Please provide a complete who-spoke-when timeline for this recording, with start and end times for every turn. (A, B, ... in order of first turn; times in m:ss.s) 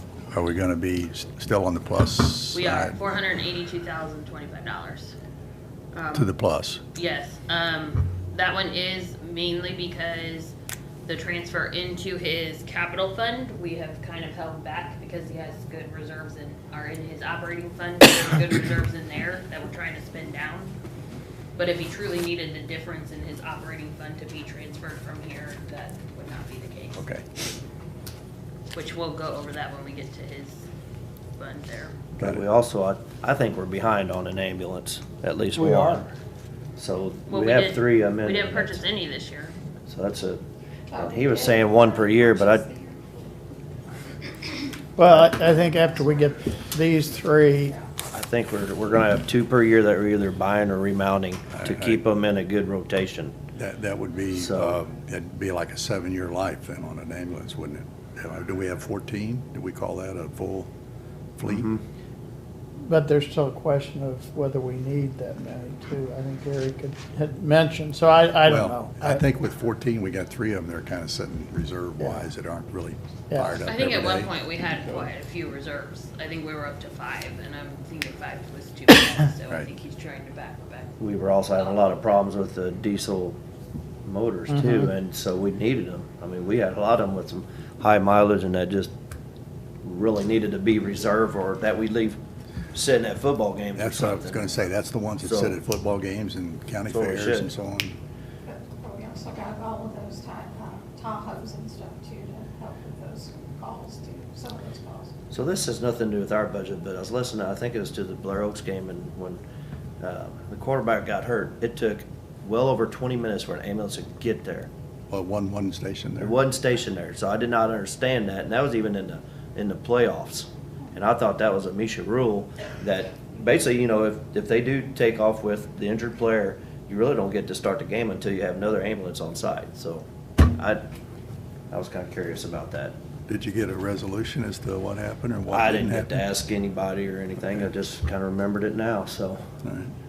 0:00.3-0:03.0 A
0:02.5-0:05.2 B
0:05.9-0:06.3 B
0:06.1-0:06.8 A
0:07.0-0:20.7 B
0:21.6-0:27.0 B
0:27.0-0:27.2 A
0:28.7-0:30.6 B
0:31.4-0:32.0 B
0:32.2-0:32.4 A
0:32.2-0:36.1 C
0:36.8-0:38.8 C
0:37.3-0:39.5 B
0:39.9-0:42.7 C
0:40.9-0:43.2 D
0:45.0-0:46.4 E
0:45.1-0:45.4 C
0:45.7-0:47.9 D
0:48.1-0:53.4 C
0:51.5-0:52.0 A
0:53.6-1:00.7 A
0:54.3-0:54.8 C
1:01.4-1:01.7 A
1:01.5-1:01.8 C
1:02.9-1:04.7 E
1:05.4-1:08.6 E
1:08.4-1:14.3 A
1:13.6-1:21.0 B
1:21.0-1:23.4 C
1:21.6-1:22.0 B
1:24.0-1:28.9 C
1:29.8-1:32.2 C
1:32.7-1:35.6 C
1:33.8-1:38.0 A
1:36.9-1:37.5 C
1:38.4-1:45.1 D
1:45.3-1:49.4 C
1:50.0-1:54.7 C
1:55.1-1:56.4 A
1:56.2-2:10.8 C
2:11.7-2:13.0 C
2:13.3-2:16.2 A
2:15.5-2:19.4 C
2:19.6-2:19.9 A